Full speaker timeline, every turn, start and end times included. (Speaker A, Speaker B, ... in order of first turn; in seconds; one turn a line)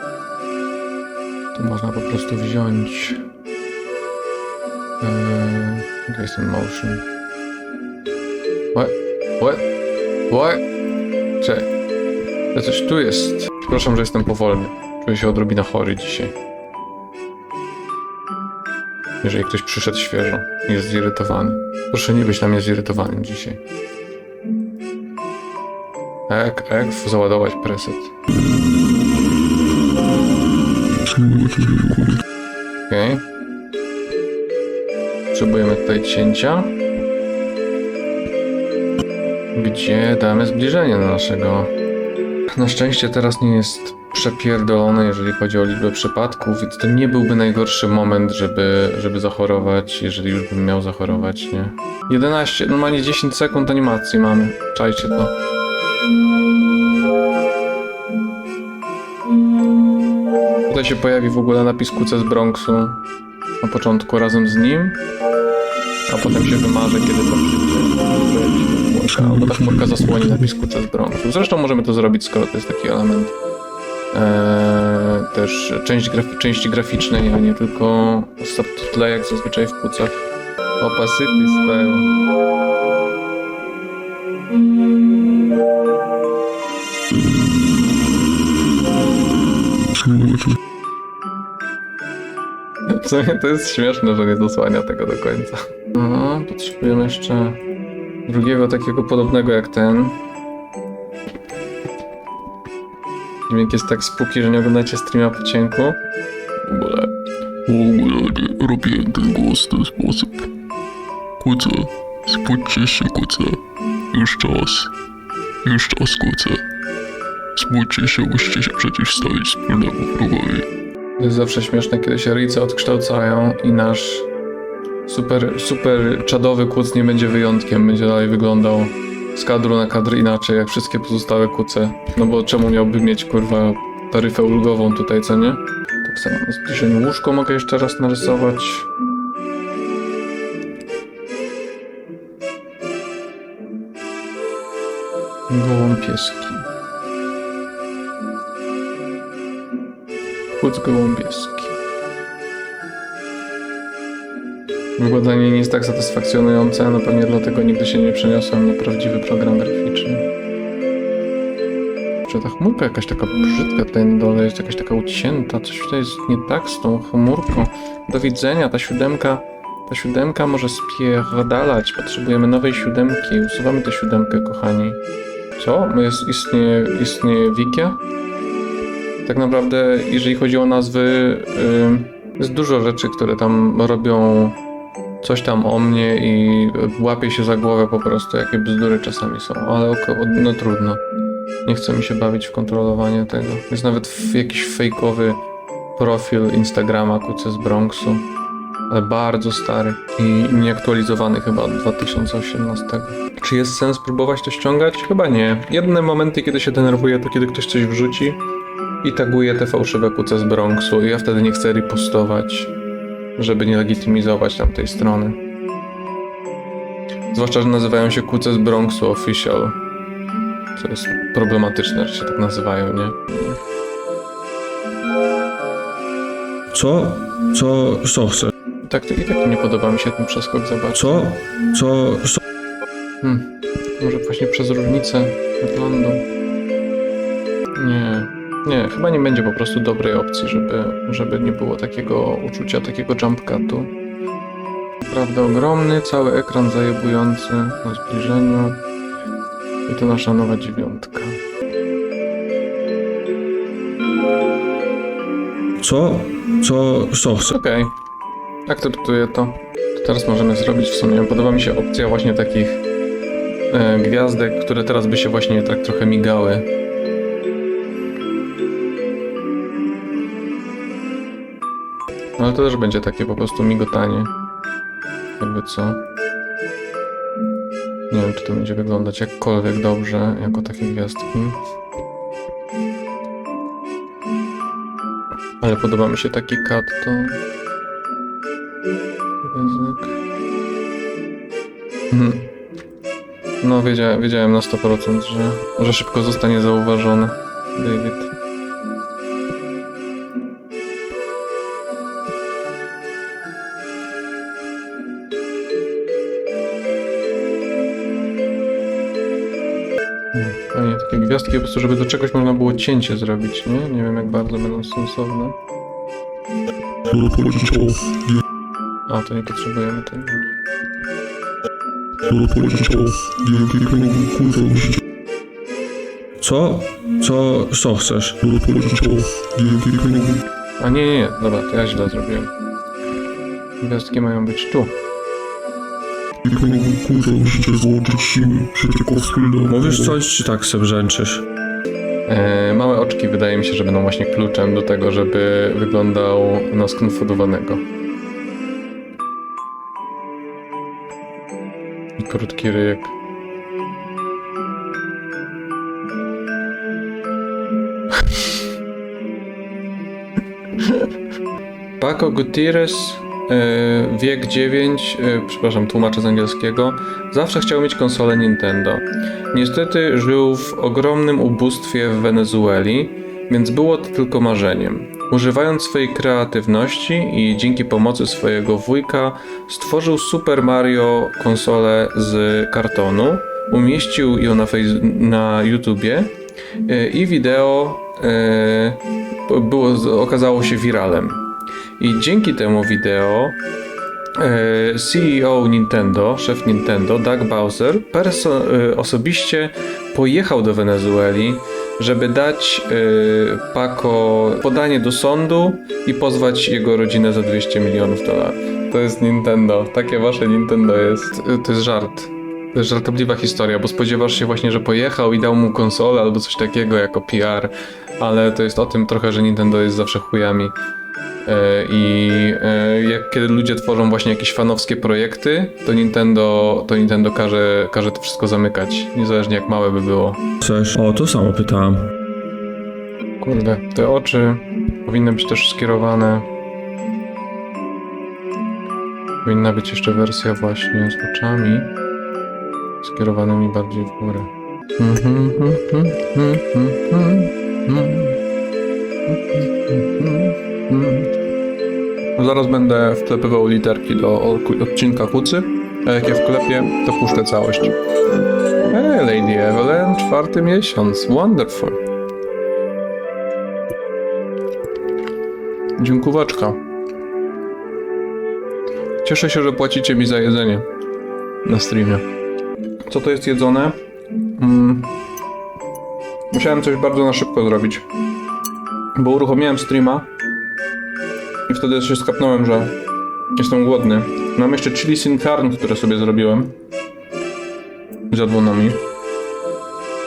Speaker A: 1.5-3.2
Speaker A: 5.0-7.0
Speaker A: 8.7-9.7
Speaker A: 10.3-10.6
Speaker A: 11.4-11.7
Speaker A: 12.5-16.3
Speaker A: 19.2-23.6
Speaker A: 26.3-28.1
Speaker B: 31.0-32.2
Speaker A: 32.9-33.2
Speaker A: 35.3-36.7
Speaker A: 39.5-41.7
Speaker A: 42.5-55.4
Speaker A: 60.7-63.0
Speaker A: 63.6-65.0
Speaker A: 66.1-73.3
Speaker B: 69.2-70.3
Speaker A: 74.1-80.2
Speaker A: 80.8-82.1
Speaker B: 90.0-90.5
Speaker A: 92.9-97.6
Speaker A: 98.3-100.2
Speaker A: 103.5-106.0
Speaker A: 106.6-107.1
Speaker B: 107.7-110.5
Speaker B: 111.4-114.9
Speaker B: 115.6-116.6
Speaker B: 117.6-120.7
Speaker A: 121.2-124.3
Speaker A: 125.1-138.9
Speaker A: 145.5-146.7
Speaker A: 150.5-151.8
Speaker A: 155.0-160.3
Speaker A: 162.2-175.0
Speaker A: 175.6-178.0
Speaker A: 179.2-184.6
Speaker A: 185.2-191.0
Speaker A: 191.7-195.4
Speaker A: 195.9-198.3
Speaker A: 198.9-208.4
Speaker A: 209.0-212.7
Speaker A: 213.4-215.4
Speaker A: 217.3-219.8
Speaker A: 220.7-223.6
Speaker C: 226.7-228.5
Speaker A: 228.8-231.3
Speaker C: 230.9-232.4
Speaker A: 233.2-236.3
Speaker A: 237.8-243.9
Speaker A: 245.0-248.8
Speaker A: 249.9-251.4
Speaker C: 255.8-257.5
Speaker A: 257.5-257.9
Speaker A: 258.7-262.8
Speaker A: 263.7-266.7
Speaker A: 272.4-274.3
Speaker A: 275.4-276.0
Speaker A: 278.1-281.6
Speaker A: 285.6-287.4
Speaker A: 289.4-290.2
Speaker A: 292.1-292.5
Speaker A: 293.6-298.3
Speaker A: 310.3-315.5
Speaker B: 317.1-318.4
Speaker A: 319.1-320.5
Speaker B: 322.2-325.0
Speaker C: 326.4-328.4
Speaker B: 328.4-330.4
Speaker A: 330.8-332.5
Speaker A: 333.8-334.9
Speaker B: 336.4-340.2
Speaker C: 339.7-341.4
Speaker A: 342.3-347.9
Speaker A: 352.2-353.1
Speaker A: 362.0-386.3
Speaker A: 386.9-391.4
Speaker A: 392.0-393.6
Speaker A: 394.4-420.7
Speaker A: 421.4-430.4
Speaker C: 430.6-432.1
Speaker A: 433.4-436.5
Speaker A: 439.4-441.9
Speaker A: 443.0-448.4
Speaker A: 449.3-451.3
Speaker A: 452.4-458.0
Speaker A: 458.9-462.0
Speaker A: 466.0-466.8
Speaker A: 469.2-470.9
Speaker A: 471.6-472.2
Speaker A: 473.1-474.0
Speaker A: 474.5-475.1
Speaker A: 476.5-478.0
Speaker A: 479.1-480.3
Speaker A: 481.7-482.9
Speaker A: 483.5-486.7
Speaker A: 488.3-489.0